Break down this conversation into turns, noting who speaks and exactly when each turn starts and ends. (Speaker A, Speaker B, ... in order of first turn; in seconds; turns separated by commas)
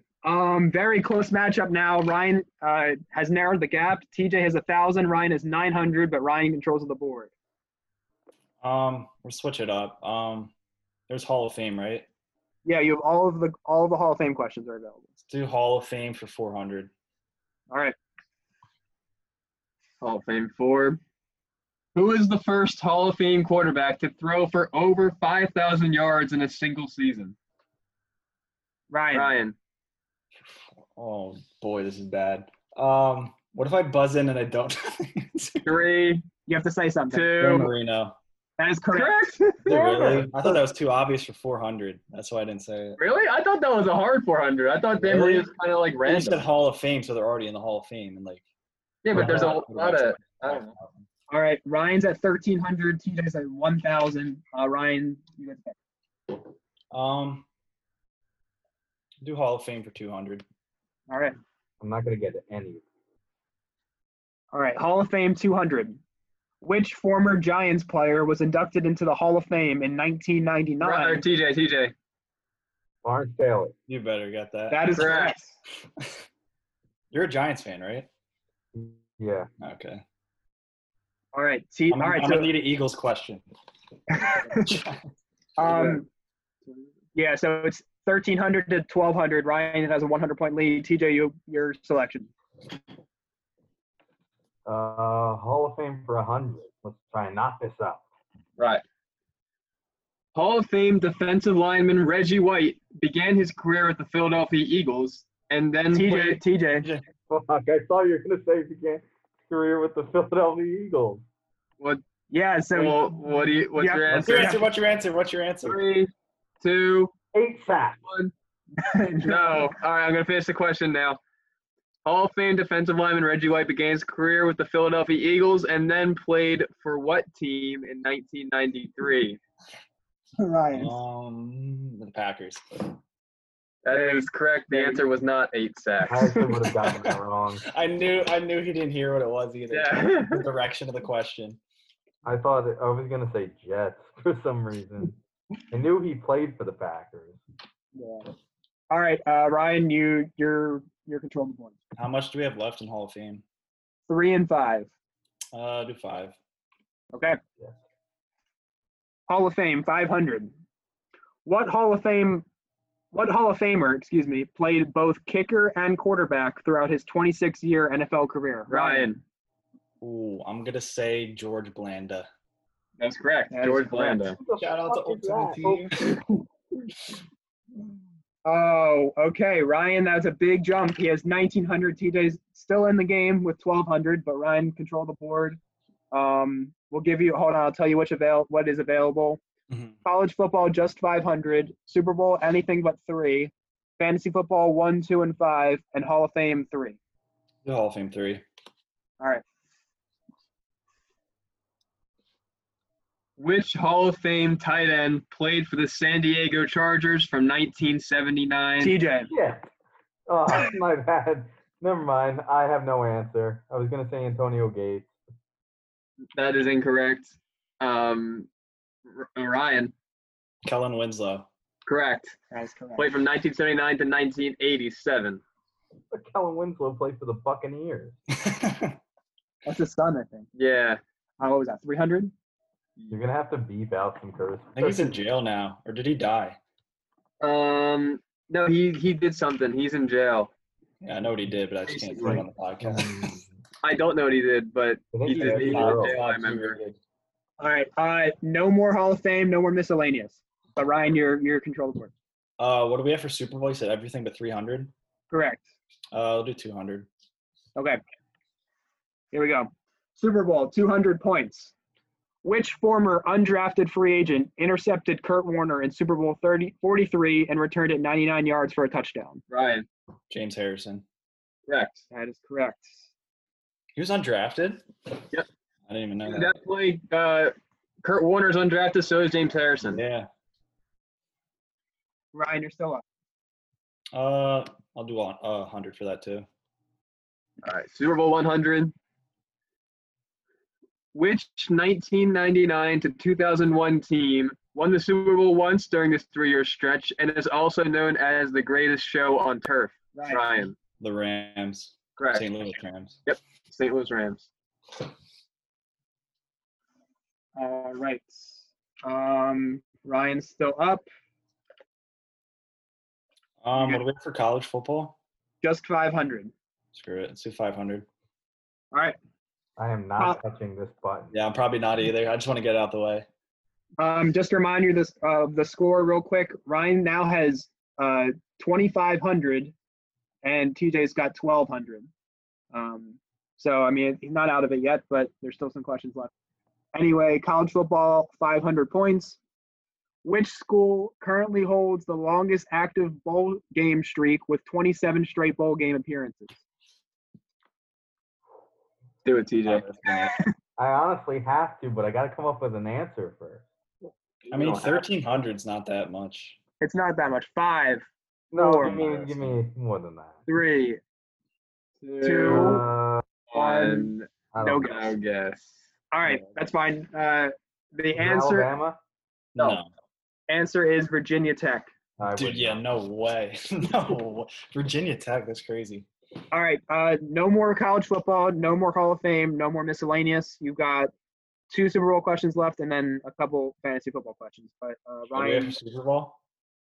Speaker A: 0.2-7.3, Speaker B: 8.6-10.5, Speaker B: 11.1-12.1, Speaker A: 12.6-15.1, Speaker B: 15.3-16.9, Speaker A: 17.7-17.9, Speaker C: 20.0-21.0, Speaker C: 21.9-27.3, Speaker A: 28.9-29.3, Speaker C: 29.1-29.5, Speaker B: 30.4-35.7, Speaker C: 35.6-36.2, Speaker A: 36.5-37.3, Speaker C: 37.1-37.7, Speaker B: 37.4-38.2, Speaker A: 38.6-39.3, Speaker C: 38.9-39.8, Speaker B: 39.6-43.0, Speaker D: 39.7-40.6, Speaker C: 43.0-46.4, Speaker B: 45.0-45.5, Speaker B: 46.0-48.4, Speaker C: 49.0-50.7, Speaker B: 49.1-51.0, Speaker D: 49.1-49.4, Speaker A: 51.3-55.8, Speaker B: 56.9-57.5, Speaker B: 59.2-60.4, Speaker A: 61.1-61.4, Speaker D: 61.8-62.8, Speaker A: 64.5-66.0, Speaker A: 66.6-71.2, Speaker C: 70.8-71.9, Speaker D: 73.0-73.7, Speaker B: 73.9-75.0, Speaker A: 74.7-75.5, Speaker C: 74.9-75.3, Speaker B: 77.1-78.1, Speaker D: 78.7-79.5, Speaker B: 79.6-80.0, Speaker A: 81.3-82.5, Speaker B: 81.9-83.4, Speaker A: 84.2-84.6, Speaker B: 84.5-85.0, Speaker A: 85.6-86.0, Speaker A: 87.1-92.3, Speaker D: 94.7-98.0, Speaker C: 98.6-98.8, Speaker C: 100.3-106.4, Speaker A: 105.9-106.9, Speaker D: 107.3-111.2, Speaker A: 112.3-113.1, Speaker C: 112.7-114.6, Speaker A: 113.7-114.6, Speaker B: 114.1-115.8, Speaker C: 115.6-116.1, Speaker C: 116.6-117.1, Speaker D: 117.3-118.0, Speaker C: 118.0-118.3, Speaker A: 118.8-119.7, Speaker C: 119.2-121.2, Speaker C: 122.0-129.4, Speaker A: 130.4-130.9, Speaker B: 130.7-132.9, Speaker C: 133.8-136.4, Speaker A: 133.9-135.0, Speaker D: 136.1-137.6, Speaker B: 137.6-141.6, Speaker C: 139.7-140.4, Speaker D: 142.2-145.2, Speaker D: 145.7-147.4, Speaker A: 147.9-148.2, Speaker A: 148.9-151.7, Speaker B: 152.0-153.4, Speaker A: 154.1-154.9, Speaker B: 155.5-156.3, Speaker A: 157.1-157.4, Speaker A: 159.3-160.5, Speaker A: 161.4-162.4, Speaker A: 163.1-169.1, Speaker C: 168.7-169.2, Speaker B: 170.0-172.3, Speaker C: 173.0-174.4, Speaker A: 173.5-174.4, Speaker D: 174.4-176.1, Speaker B: 174.6-176.2, Speaker A: 178.4-185.6, Speaker A: 186.1-189.4, Speaker B: 189.7-190.0, Speaker A: 190.0-197.0, Speaker B: 197.6-198.4, Speaker C: 203.4-208.9, Speaker A: 208.8-209.3, Speaker D: 209.3-209.7, Speaker D: 210.3-215.1, Speaker C: 216.3-218.5, Speaker C: 219.1-219.9, Speaker B: 220.6-221.5, Speaker C: 221.8-222.4, Speaker A: 222.5-223.1, Speaker C: 223.0-225.4, Speaker D: 226.1-228.2, Speaker B: 228.3-229.0, Speaker A: 229.7-230.5, Speaker C: 230.6-231.0, Speaker A: 231.4-232.3, Speaker D: 233.1-235.2, Speaker B: 234.7-236.6, Speaker C: 237.4-240.5, Speaker B: 241.0-243.4, Speaker C: 241.8-242.4, Speaker D: 242.8-243.4, Speaker C: 243.8-246.8, Speaker D: 245.1-246.9, Speaker B: 245.3-246.4, Speaker A: 247.6-252.1, Speaker B: 252.6-254.9, Speaker A: 255.3-255.7, Speaker B: 256.1-257.1, Speaker A: 257.8-258.0, Speaker A: 259.3-261.7, Speaker A: 262.4-269.4, Speaker C: 269.5-269.9, Speaker B: 270.3-271.0, Speaker C: 271.7-272.0, Speaker A: 272.1-273.0, Speaker B: 273.9-274.9, Speaker B: 275.9-276.5, Speaker C: 276.2-280.0, Speaker B: 279.9-280.3, Speaker A: 282.3-283.0, Speaker B: 284.1-286.4, Speaker C: 287.6-288.9, Speaker C: 291.1-300.7, Speaker A: 300.1-300.4, Speaker B: 301.0-303.2, Speaker C: 302.2-302.4, Speaker C: 303.2-304.5, Speaker A: 307.6-311.1, Speaker B: 313.6-315.1, Speaker A: 313.8-314.0, Speaker A: 315.6-316.5, Speaker B: 316.9-318.1, Speaker A: 318.9-319.2, Speaker D: 319.8-321.4, Speaker B: 321.3-323.3, Speaker A: 324.0-329.7, Speaker A: 330.4-332.1, Speaker A: 332.7-336.3, Speaker A: 336.9-339.4, Speaker A: 340.2-346.6, Speaker C: 349.2-349.9, Speaker B: 349.6-350.4, Speaker A: 350.1-350.5, Speaker D: 350.8-353.6, Speaker C: 354.4-355.0, Speaker B: 354.5-356.6, Speaker A: 356.8-359.0, Speaker D: 358.5-360.4, Speaker B: 358.8-359.6, Speaker A: 360.5-361.0, Speaker C: 362.0-362.9, Speaker A: 362.2-362.9, Speaker D: 362.4-363.2, Speaker C: 363.5-365.8, Speaker A: 363.5-365.1, Speaker D: 364.5-365.1, Speaker A: 366.1-368.7, Speaker D: 368.1-369.0, Speaker B: 369.6-369.9, Speaker A: 370.5-371.9, Speaker D: 372.2-372.8, Speaker B: 372.3-376.1, Speaker A: 376.5-381.1, Speaker A: 381.7-385.7, Speaker B: 385.3-386.4